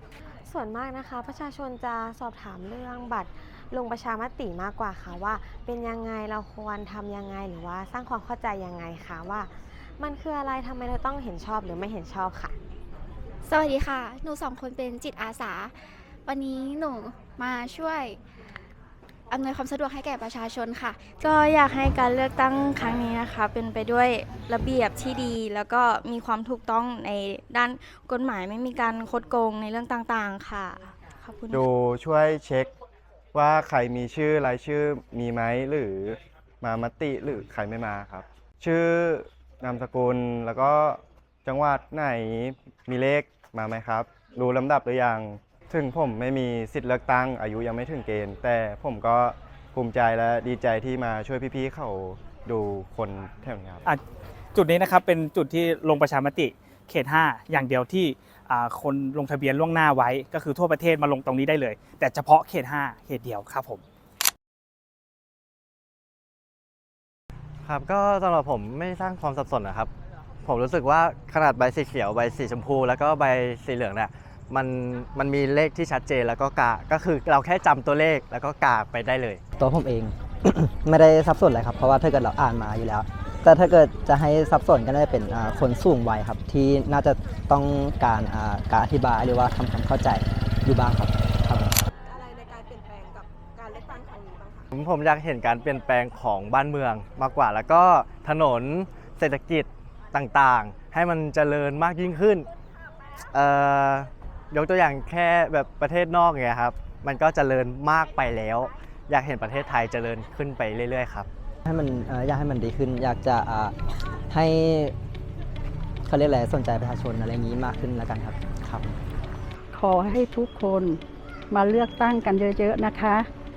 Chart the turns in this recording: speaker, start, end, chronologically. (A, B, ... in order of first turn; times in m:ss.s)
0:00.4-0:12.6 A
0:13.4-0:18.2 B
0:19.3-0:21.1 B
0:21.2-0:31.6 C
0:31.5-0:32.7 D
0:33.3-0:53.8 D
0:54.5-1:03.8 E
1:07.6-1:09.9 F
1:10.4-1:19.4 F
1:19.6-1:31.8 G
1:32.1-1:34.6 H
1:34.7-1:42.5 F
1:43.3-1:51.3 F
1:51.6-1:53.8 G
1:54.3-1:54.9 G
1:56.0-1:58.9 G
1:59.7-2:03.3 I